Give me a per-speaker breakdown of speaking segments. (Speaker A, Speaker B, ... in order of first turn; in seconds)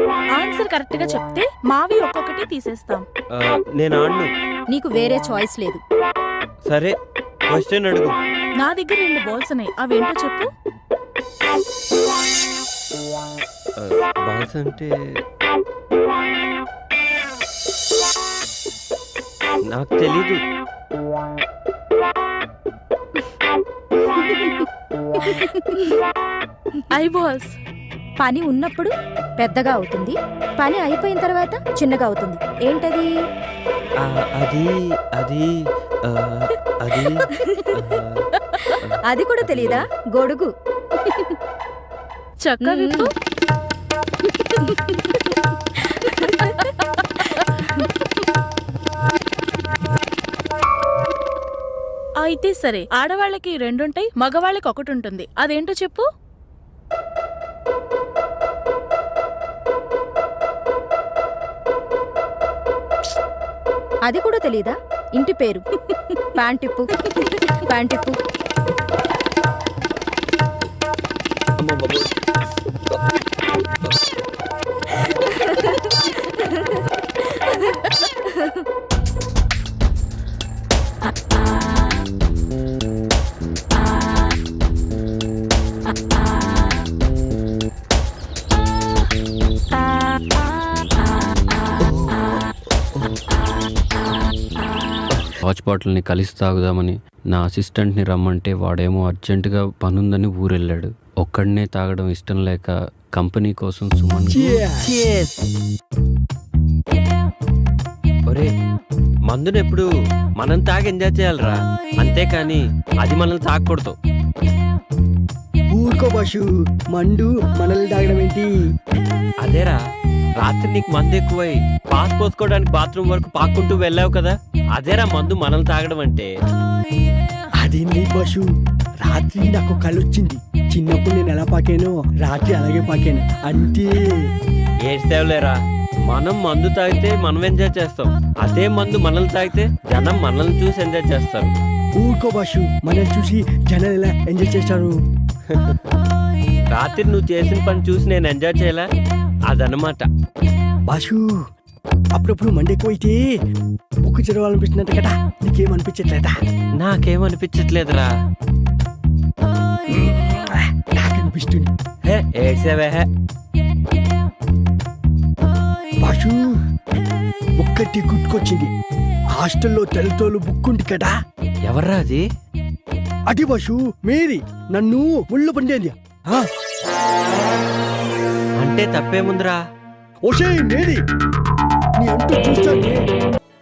Speaker A: 0.4-3.0, 8.6-10.4, 26.9-27.5, 42.4-43.1, 52.2-56.0
Speaker B: 3.3-4.3, 6.7-6.9, 7.5-8.1, 13.8-14.9, 19.7-20.4, 34.0-35.5, 36.1-38.2, 38.8-39.8, 95.3-105.4, 109.3-114.0, 119.4-119.8, 120.4-126.3, 134.8-141.5, 146.7-148.9, 149.5-150.1, 156.8-158.1, 162.0-163.1, 171.7-172.2, 178.6-179.6
Speaker C: 4.7-5.8, 28.2-33.1, 37.3-37.6, 39.1-40.5, 41.1-41.3, 42.6-43.1, 44.5-45.3, 46.0-46.5, 64.1-65.6, 66.4-68.1, 75.5-76.6, 77.5-78.5
Speaker D: 104.3-104.9, 115.7-116.4, 117.0-118.5, 127.6-128.4, 129.0-134.0, 142.0-144.9, 150.9-151.4, 152.2-153.2, 154.1-156.3, 159.9-161.7, 166.0-166.4, 167.6-168.7, 169.4-171.1, 173.3-176.5, 180.2-181.0, 182.0-183.0